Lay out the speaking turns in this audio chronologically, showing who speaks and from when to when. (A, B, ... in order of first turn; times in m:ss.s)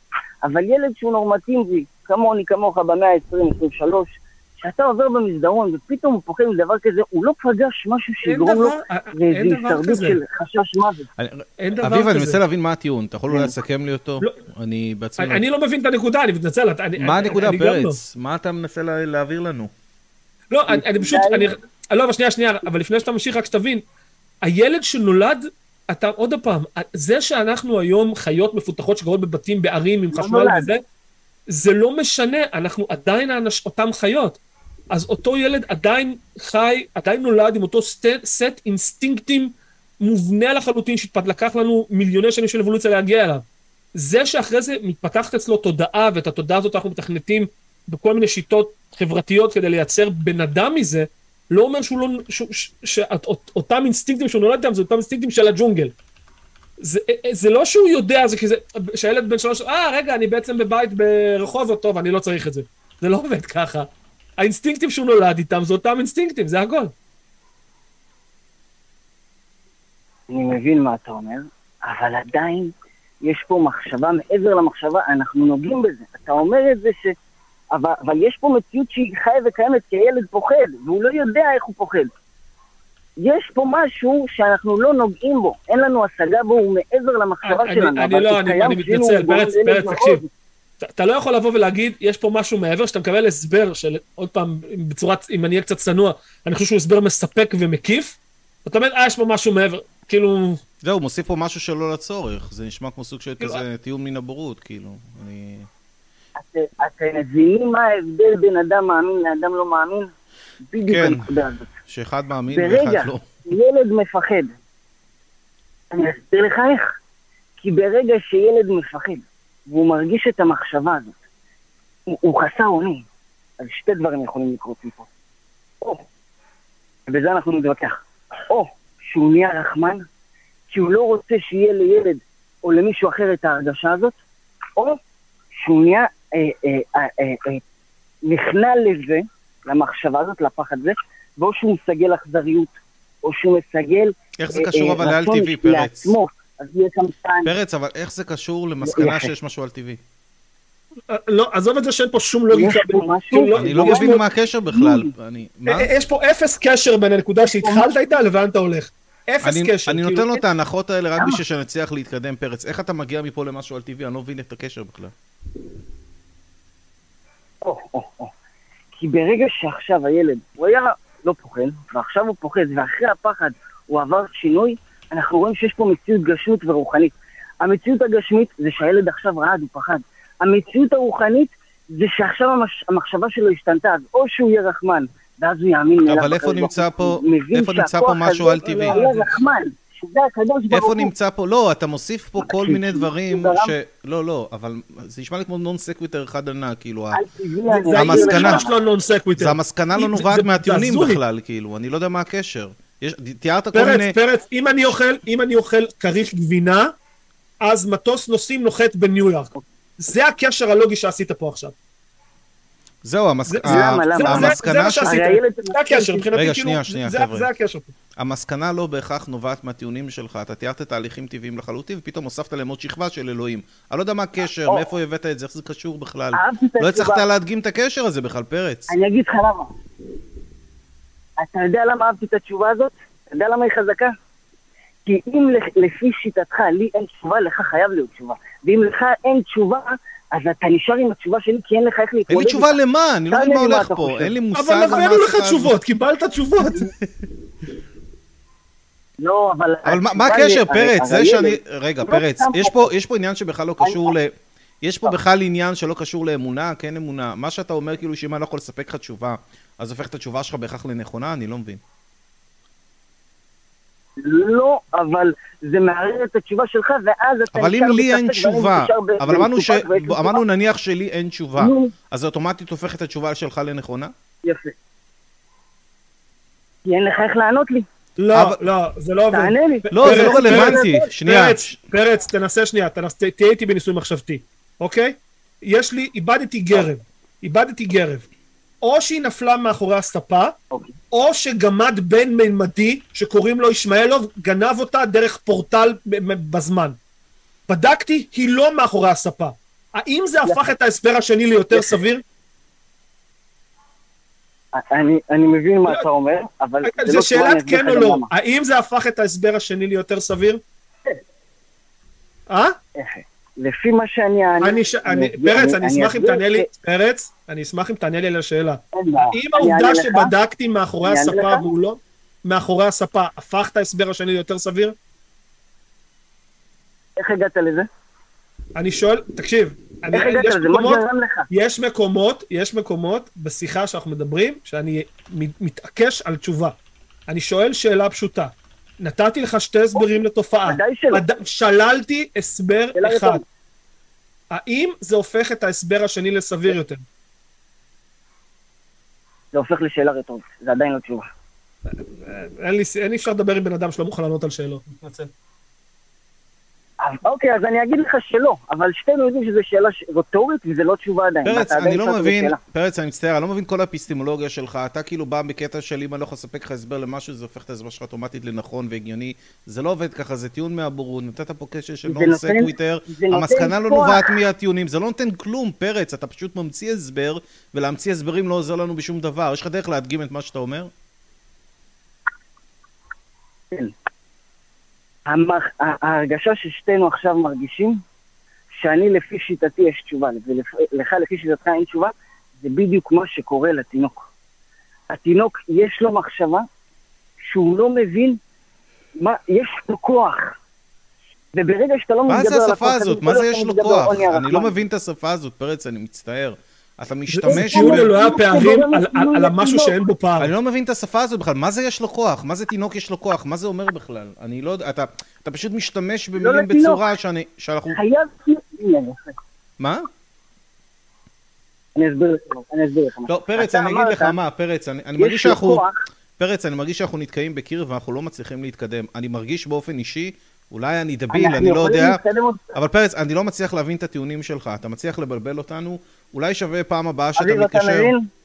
0:00.4-0:11.1 A
0:08.2-0:10.2 B
0:11.2-0:15.4 C
0:11.6-0:12.4 B
0:15.2-0:18.0 B
0:17.0-0:19.7 C
0:20.5-0:23.8 B
0:20.7-0:21.5 A
0:24.4-0:30.8 B
0:30.1-0:30.7 A
0:31.5-0:34.4 B
0:34.9-0:43.4 B
0:44.0-0:55.9 B
0:56.8-1:06.9 B
1:10.3-1:12.7 A
1:13.2-1:17.1 A
1:17.7-1:22.1 A
1:23.2-1:30.3 A
1:27.4-1:30.2 B
1:30.8-1:40.6 B
1:40.8-1:45.7 C
1:46.4-1:50.1 A
1:50.7-1:51.7 A
1:50.9-1:51.3 C
1:51.8-1:53.3 C
1:52.5-1:54.6 A
1:55.9-1:56.9 A
1:57.6-2:01.2 A
2:02.1-2:03.1 A
2:03.6-2:05.1 A
2:07.1-2:08.0 A
2:08.5-2:10.0 A
2:10.7-2:14.2 A
2:15.6-2:17.6 A
2:18.2-2:22.7 A
2:23.2-2:27.5 A
2:24.4-2:26.1 C
2:27.4-2:30.0 C
2:28.8-2:29.3 A
2:31.1-2:34.2 B
2:32.5-2:34.2 A
2:33.6-2:35.9 C
2:34.7-2:35.1 A
2:35.7-2:40.4 B
2:37.6-2:37.9 A
2:39.4-2:45.1 C
2:47.6-2:48.3 A
2:49.0-3:11.1 A
3:06.0-3:09.0 C
3:08.6-3:09.4 B
3:10.7-3:17.2 C
3:12.4-3:13.7 A
3:17.1-3:18.7 A
3:17.7-3:21.2 B
3:17.9-3:18.6 C
3:19.4-3:24.2 C
3:23.7-3:26.9 B
3:27.6-3:31.7 B
3:33.0-3:35.2 C
3:33.5-3:37.9 B
3:33.6-3:36.3 A
3:36.4-3:37.5 C
3:38.2-3:48.9 C
3:46.3-3:47.2 A
3:48.9-3:49.7 A
3:51.4-3:54.1 A
3:55.1-4:02.8 A
4:02.3-4:05.7 C
4:03.3-4:04.3 A
4:04.6-4:06.9 B
4:09.2-4:12.9 A
4:09.8-4:21.8 C
4:13.8-4:14.1 A
4:24.2-4:30.4 A
4:27.5-4:34.1 C
4:31.6-4:31.9 A
4:34.4-4:34.8 A
4:36.9-4:37.9 A
4:38.2-4:48.3 B
4:38.3-4:38.6 C
4:39.3-4:41.0 A
4:39.9-4:41.8 C
4:48.8-4:50.5 B
4:51.1-4:57.0 B
4:57.7-5:02.2 B
5:00.4-5:00.7 A
5:01.7-5:02.0 A
5:04.7-5:08.3 A
5:06.8-5:10.6 B
5:12.5-5:12.8 B
5:13.0-5:16.7 A
5:14.6-5:25.0 B
5:18.9-5:20.3 A
5:21.0-5:21.6 A
5:27.2-5:27.9 A
5:28.8-5:36.8 B
5:30.1-5:31.5 A
5:37.3-5:43.4 B
5:40.7-5:41.2 A
5:43.0-5:43.4 A
5:44.5-5:47.0 B
5:49.5-5:51.3 A
5:51.9-5:55.3 B
5:57.0-6:02.6 A
6:01.4-6:20.9 C
6:12.0-6:14.4 A
6:25.3-6:28.0 A
6:28.8-6:34.2 A
6:35.1-6:36.6 A
6:37.4-6:38.4 A
6:39.2-6:40.5 A
6:41.5-6:44.7 A
6:42.3-6:48.1 C
6:47.3-6:50.5 B
6:47.5-6:49.9 A
6:50.4-6:58.0 C
6:56.4-6:57.0 A
6:57.9-6:59.4 A
6:59.8-7:00.0 C
7:02.0-7:04.4 A
7:03.3-7:05.8 C
7:05.2-7:06.0 A
7:06.4-7:12.2 C
7:11.3-7:12.8 A
7:12.8-7:18.1 C
7:17.4-7:18.3 A